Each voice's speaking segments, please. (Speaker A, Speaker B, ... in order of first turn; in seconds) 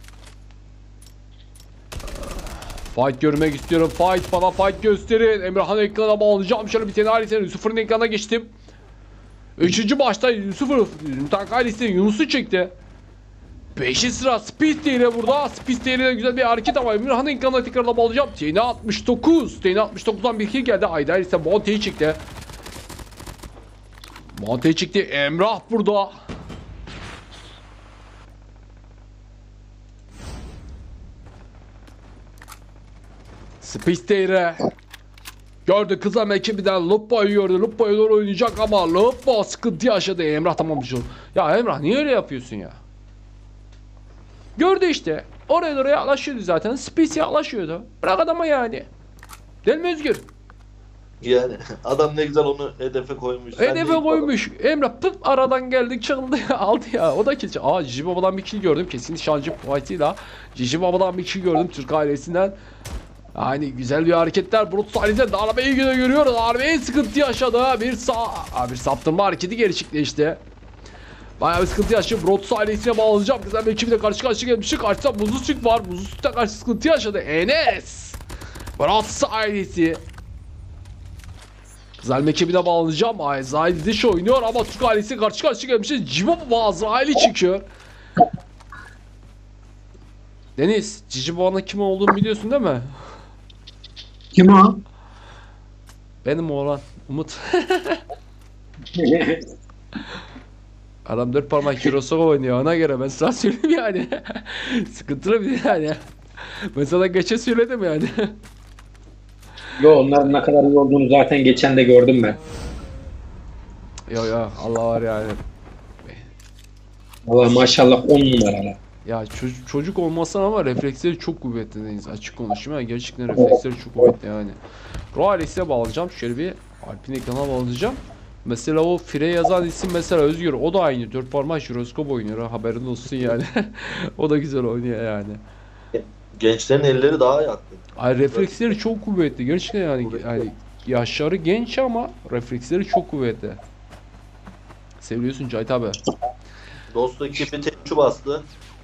Speaker A: 2.9-8.5, 9.6-12.7, 13.8-22.2, 24.4-26.1, 33.6-34.6, 35.6-42.8, 44.5-48.9, 49.6-50.2, 53.6-62.5, 63.3-70.4, 71.4-78.2, 78.8-80.0, 82.0-87.6, 90.6-92.9, 96.2-98.0, 101.0-108.3, 114.1-115.4, 119.0-124.5, 125.1-135.4, 137.9-143.6, 145.0-146.0
Speaker B: 51.2-54.3, 135.9-138.6, 140.0-140.4, 146.9-148.4
Speaker C: 94.3-94.8, 98.9-99.5, 109.8-112.4, 117.2-118.8